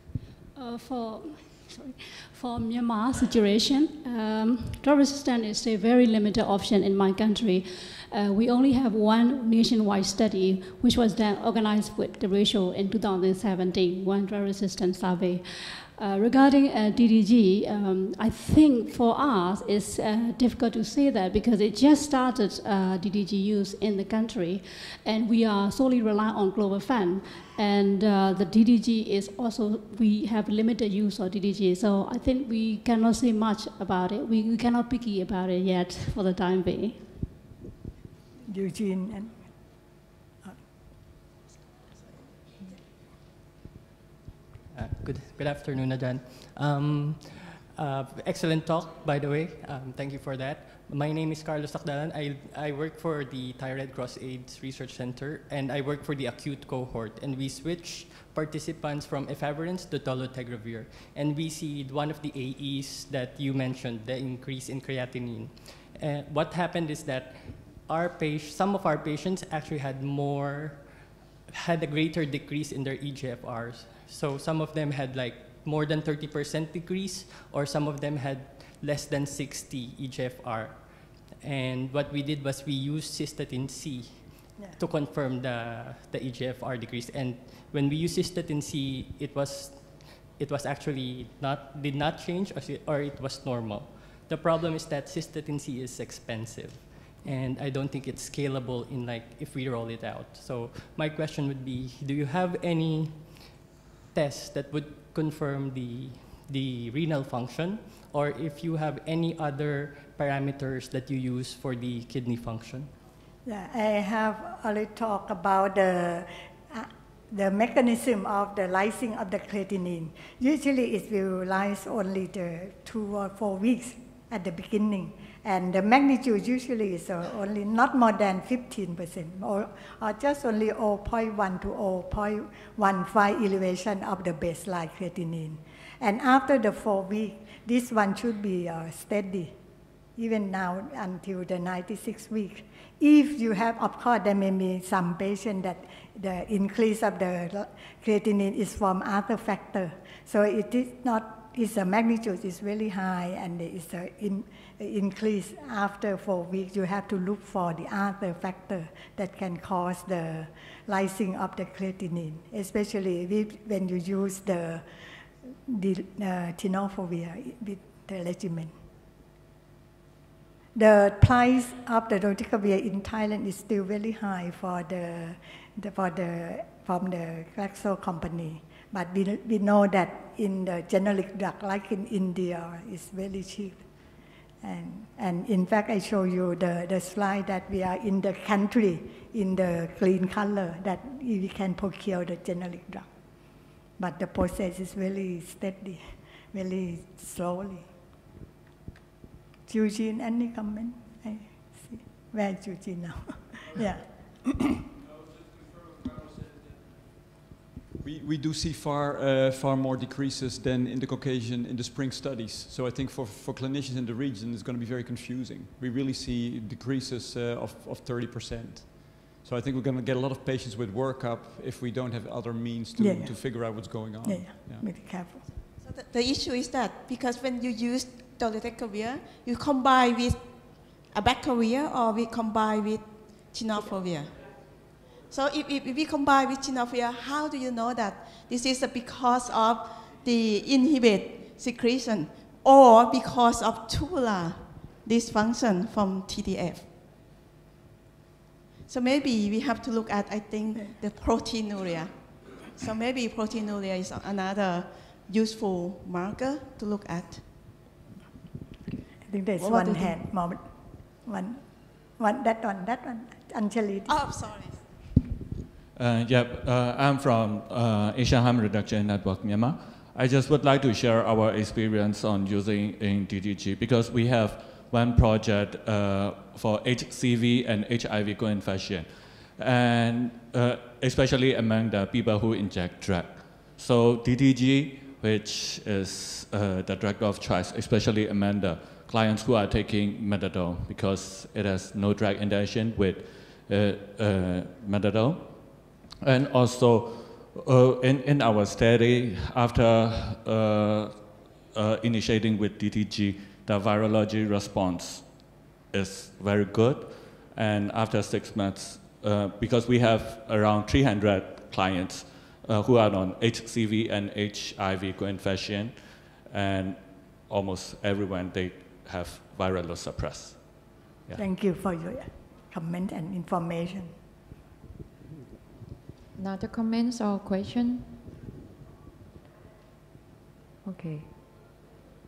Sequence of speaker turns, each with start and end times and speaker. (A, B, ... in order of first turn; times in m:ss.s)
0:00.6-0:37.1 A
0:38.4-0:39.3 B
0:44.7-1:43.6 C
1:44.1-1:52.9 C
1:53.5-2:19.5 B
2:20.2-2:44.8 B
2:45.7-2:48.7 B
2:50.8-3:03.8 B
3:04.6-3:13.1 B
3:14.0-3:17.9 B
3:19.7-3:24.8 B
3:28.0-3:44.9 D
3:43.0-3:45.4 B
3:45.8-3:50.5 E
3:51.0-3:54.5 E
3:55.3-4:06.9 E
4:08.9-4:17.4 E
4:19.3-4:20.7 B
4:19.6-4:20.2 E
4:21.2-4:21.6 B
4:22.2-4:24.2 B
4:24.1-4:24.8 E
4:26.0-5:21.4 F
5:21.4-5:24.1 B
5:26.4-5:28.1 G
5:30.8-5:31.3 G